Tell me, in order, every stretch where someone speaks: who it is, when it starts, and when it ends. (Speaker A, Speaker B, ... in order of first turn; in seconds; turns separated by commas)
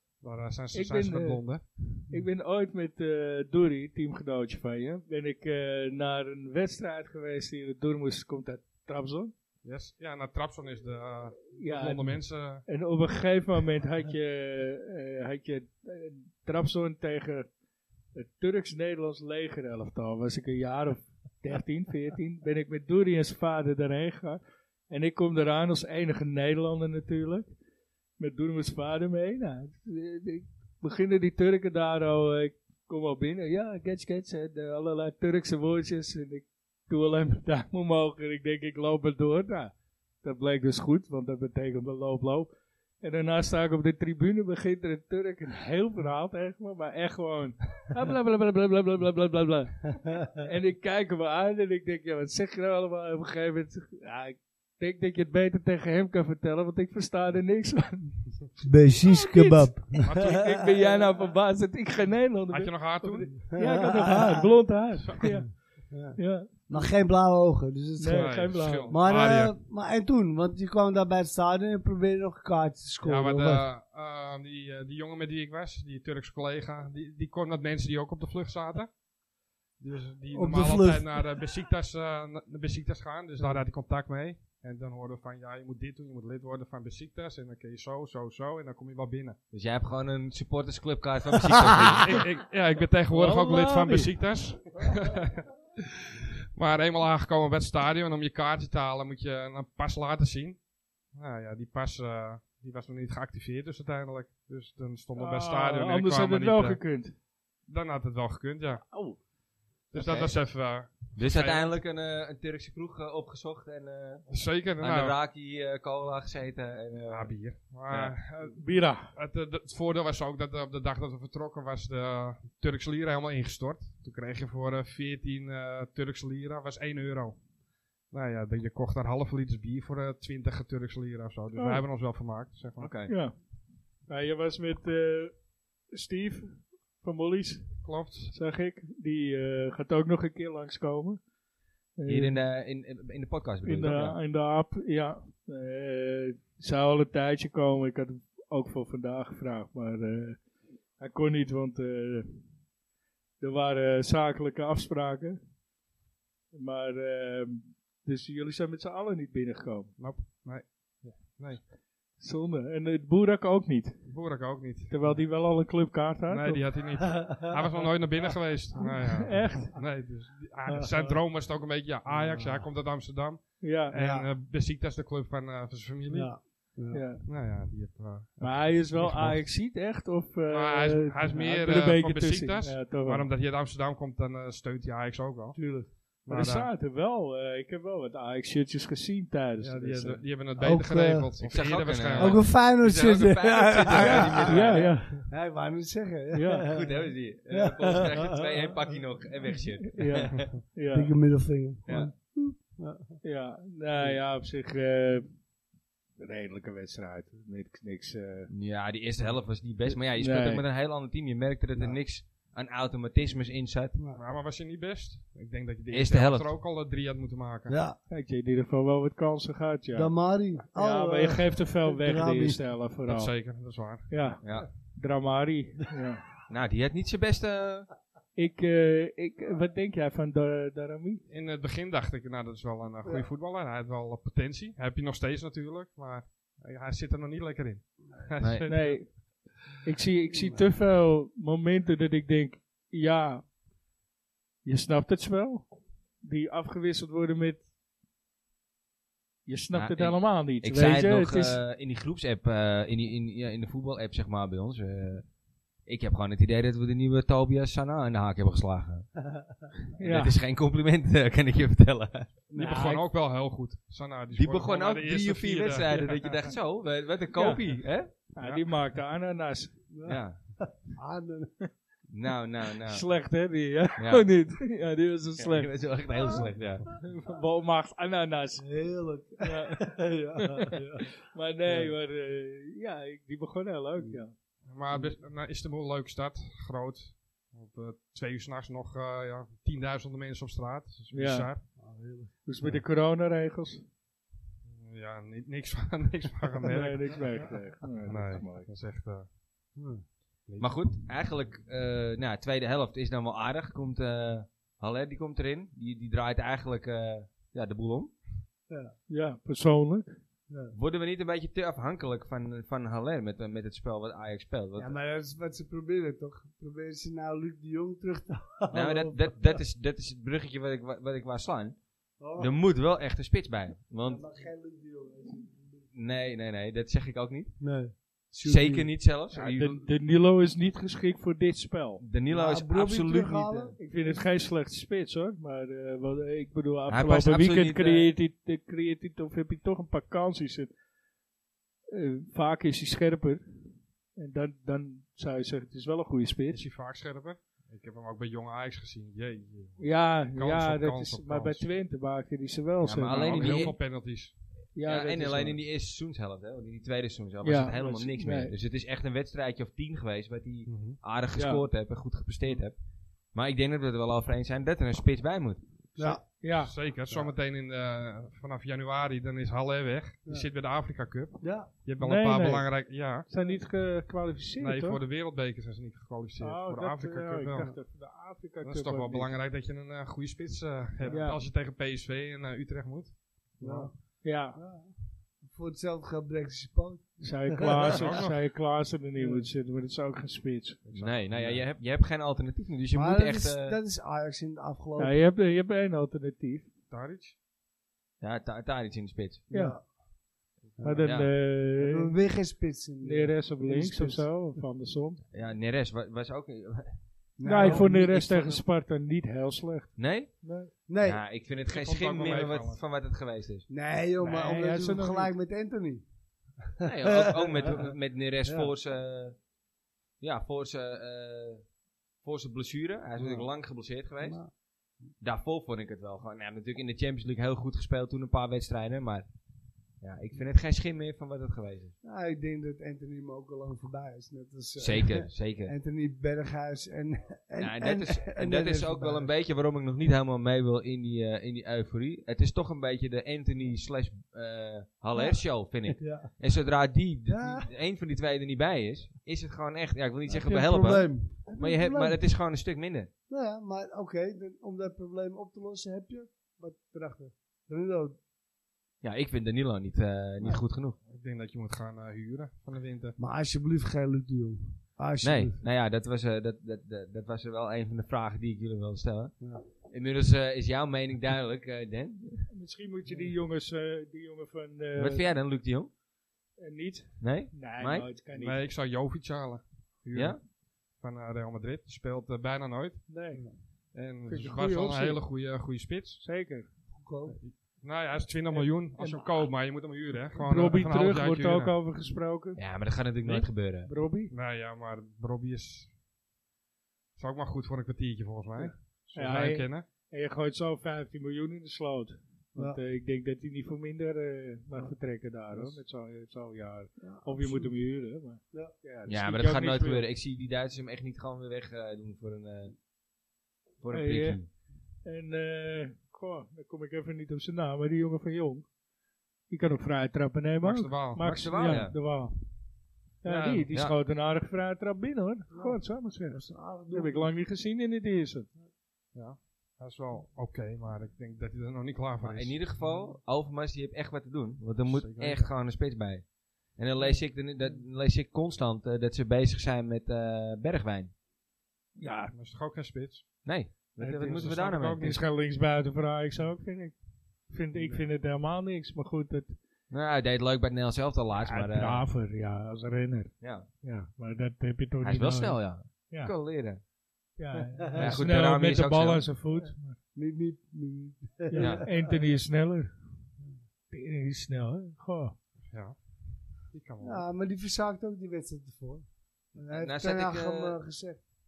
Speaker A: 0.2-1.6, Speaker B: 0.7-9.3, Speaker A: 9.6-12.7, Speaker B: 11.6-17.5, Speaker B: 18.1-27.5, Speaker B: 28.2-58.3, Speaker C: 58.6-61.1, Speaker B: 59.0-65.6, Speaker A: 60.0-60.5, Speaker A: 62.5-63.5, Speaker C: 63.3-64.5, Speaker A: 65.0-65.4, Speaker C: 65.9-73.7, Speaker B: 66.2-66.9, Speaker B: 68.0-69.0, Speaker A: 68.1-69.5, Speaker A: 73.0-79.0, Speaker A: 79.8-89.4, Speaker C: 80.3-81.4, Speaker D: 89.5-92.2, Speaker A: 92.0-95.5, Speaker B: 93.1-94.1, Speaker A: 96.5-100.6, Speaker A: 101.1-106.8, Speaker B: 105.2-107.2, Speaker A: 107.7-108.9, Speaker B: 108.8-109.2, Speaker A: 109.9-111.8, Speaker D: 109.9-110.3, Speaker D: 111.2-117.3, Speaker A: 114.3-115.2, Speaker A: 117.1-127.4, Speaker D: 117.9-118.2, Speaker B: 118.5-119.1, Speaker A: 128.1-132.9, Speaker B: 131.6-131.8, Speaker D: 132.8-133.1, Speaker B: 133.1-133.4, Speaker B: 134.1-137.8, Speaker A: 137.8-138.3, Speaker B: 138.3-141.2, Speaker B: 142.0-142.4, Speaker D: 142.1-144.2, Speaker B: 143.6-150.4, Speaker B: 151.0-152.5, Speaker B: 153.4-155.4, Speaker B: 156.5-159.9, Speaker A: 160.0-161.7, Speaker B: 162.2-164.0, Speaker A: 164.1-165.3, Speaker B: 164.9-166.8, Speaker A: 166.3-176.6, Speaker C: 168.8-169.3, Speaker B: 168.8-169.8, Speaker C: 170.7-171.1, Speaker C: 172.1-172.7, Speaker B: 173.6-173.9, Speaker C: 173.9-174.3, Speaker C: 176.1-177.1, Speaker B: 176.9-177.2, Speaker A: 177.3-179.4, Speaker B: 178.4-183.3, Speaker A: 180.5-185.6, Speaker C: 185.6-185.9, Speaker A: 186.2-186.7, Speaker B: 186.3-190.2, Speaker A: 189.6-192.5, Speaker C: 190.6-191.3, Speaker D: 191.4-195.0, Speaker C: 192.2-196.9, Speaker B: 193.9-195.3, Speaker B: 196.3-196.7, Speaker D: 196.7-200.5, Speaker C: 197.5-198.7, Speaker B: 199.9-201.1, Speaker C: 200.9-203.2, Speaker D: 201.9-202.1, Speaker B: 203.2-205.3, Speaker B: 206.2-208.5, Speaker D: 208.5-213.9, Speaker B: 210.1-210.6, Speaker C: 211.8-212.0, Speaker A: 214.1-217.8, Speaker D: 215.9-216.5, Speaker C: 217.7-218.0, Speaker B: 218.1-220.1, Speaker C: 219.9-222.6, Speaker B: 220.7-223.3, Speaker A: 223.1-224.3, Speaker B: 224.1-226.3, Speaker D: 224.4-224.7, Speaker D: 226.5-227.9, Speaker B: 228.3-231.2, Speaker A: 231.3-239.5, Speaker D: 238.4-238.7, Speaker B: 238.7-243.5, Speaker C: 240.3-240.7, Speaker B: 244.6-247.7, Speaker B: 249.5-251.6, Speaker D: 249.7-255.3, Speaker D: 255.8-259.1, Speaker B: 260.0-260.4, Speaker D: 260.0-262.3, Speaker A: 262.5-266.5, Speaker B: 262.6-263.0, Speaker D: 264.4-268.1, Speaker B: 267.4-269.8, Speaker A: 268.4-268.6, Speaker C: 269.9-271.6, Speaker D: 270.1-270.4, Speaker D: 272.1-273.1, Speaker B: 272.8-278.9, Speaker D: 274.0-274.3, Speaker D: 275.4-276.9, Speaker C: 276.2-276.5, Speaker C: 278.6-281.1, Speaker B: 279.4-284.4, Speaker C: 281.7-281.9, Speaker A: 284.6-291.6, Speaker B: 291.1-291.5, Speaker C: 291.8-292.8, Speaker B: 292.4-293.9, Speaker A: 294.7-297.3, Speaker B: 296.7-298.7, Speaker A: 297.9-299.3, Speaker C: 299.8-300.0, Speaker A: 300.5-300.7, Speaker D: 300.6-308.2, Speaker C: 308.7-308.9, Speaker B: 309.1-310.2, Speaker C: 310.5-310.7, Speaker D: 310.7-314.9, Speaker C: 314.8-319.6, Speaker D: 318.7-324.2, Speaker C: 322.2-322.6, Speaker C: 324.0-325.9, Speaker D: 325.9-327.6, Speaker C: 327.6-329.0, Speaker D: 328.3-329.9, Speaker B: 329.3-332.0, Speaker D: 332.0-333.7, Speaker C: 332.3-333.8, Speaker B: 333.8-340.7, Speaker D: 336.9-338.1, Speaker B: 341.9-343.4, Speaker B: 344.1-346.6, Speaker A: 346.5-351.7, Speaker B: 349.8-353.8, Speaker D: 352.8-353.8, Speaker A: 353.1-354.4, Speaker B: 354.8-355.6, Speaker D: 354.9-362.8, Speaker B: 357.4-358.6, Speaker A: 360.7-361.0, Speaker B: 361.4-361.6, Speaker D: 363.3-366.2, Speaker C: 366.0-366.3, Speaker B: 366.4-366.7, Speaker A: 366.5-373.3, Speaker C: 371.4-371.7, Speaker B: 372.0-372.7, Speaker B: 373.3-375.0, Speaker A: 374.6-377.8, Speaker B: 376.4-379.3, Speaker A: 378.6-383.9, Speaker C: 381.0-381.3, Speaker B: 381.1-381.4, Speaker C: 383.6-388.1, Speaker B: 384.2-384.6, Speaker B: 387.2-390.9, Speaker A: 387.8-388.4, Speaker C: 389.2-389.5, Speaker A: 390.9-391.6, Speaker D: 390.9-393.8, Speaker C: 392.9-395.2, Speaker B: 395.0-396.7, Speaker A: 396.9-397.4, Speaker D: 398.2-399.5, Speaker B: 399.5-399.8, Speaker C: 399.5-399.9, Speaker C: 400.8-404.6, Speaker B: 400.8-402.1, Speaker D: 401.0-401.3, Speaker B: 403.0-405.2, Speaker D: 405.3-407.0, Speaker C: 407.4-408.6, Speaker B: 407.4-410.7, Speaker D: 407.6-407.9, Speaker D: 410.0-413.7, Speaker C: 410.9-411.2, Speaker A: 411.6-412.8, Speaker C: 413.7-416.1, Speaker B: 414.2-415.3, Speaker C: 416.8-417.9, Speaker D: 416.8-419.4, Speaker C: 418.4-418.7, Speaker D: 420.2-424.6, Speaker C: 423.2-423.5, Speaker C: 424.2-424.5, Speaker D: 425.2-429.3, Speaker D: 430.0-431.9, Speaker C: 432.0-439.3, Speaker D: 434.8-435.7, Speaker D: 437.6-453.1, Speaker C: 445.1-446.3, Speaker C: 447.3-447.7, Speaker C: 450.3-452.2, Speaker C: 453.3-458.2, Speaker D: 459.0-461.0, Speaker A: 461.1-463.2, Speaker C: 463.2-465.6, Speaker D: 465.2-472.5, Speaker B: 472.5-475.2, Speaker D: 475.0-475.9, Speaker B: 476.6-478.7, Speaker D: 477.2-478.1, Speaker A: 478.3-483.1, Speaker D: 480.1-480.4, Speaker B: 483.1-483.5, Speaker A: 483.9-486.2, Speaker B: 484.3-485.2, Speaker B: 486.2-486.7, Speaker C: 486.9-487.4, Speaker A: 487.4-491.8, Speaker B: 488.5-489.4, Speaker B: 490.3-494.3, Speaker D: 492.6-493.9, Speaker A: 494.3-495.9, Speaker A: 497.2-499.9, Speaker B: 499.1-510.1, Speaker C: 507.0-507.8, Speaker D: 509.1-512.8, Speaker D: 513.8-514.5, Speaker B: 513.9-514.4, Speaker B: 515.0-518.7, Speaker B: 519.5-522.4, Speaker A: 520.6-521.2, Speaker D: 521.2-522.0, Speaker B: 523.2-528.5, Speaker D: 523.2-524.0, Speaker C: 525.5-527.3, Speaker A: 529.1-532.5, Speaker D: 532.2-541.1, Speaker A: 534.8-535.5, Speaker B: 542.0-542.3, Speaker A: 542.3-543.5, Speaker D: 543.5-545.1, Speaker B: 544.0-549.6, Speaker A: 544.3-545.2, Speaker D: 549.9-552.0, Speaker B: 551.4-556.3, Speaker D: 553.4-553.7, Speaker D: 555.0-556.8, Speaker B: 557.4-560.0, Speaker D: 558.0-559.3, Speaker C: 560.1-562.1, Speaker B: 561.5-562.9, Speaker D: 561.5-561.9, Speaker B: 563.9-565.4, Speaker A: 565.7-566.0, Speaker A: 566.7-567.2, Speaker C: 567.0-571.3, Speaker D: 569.7-570.8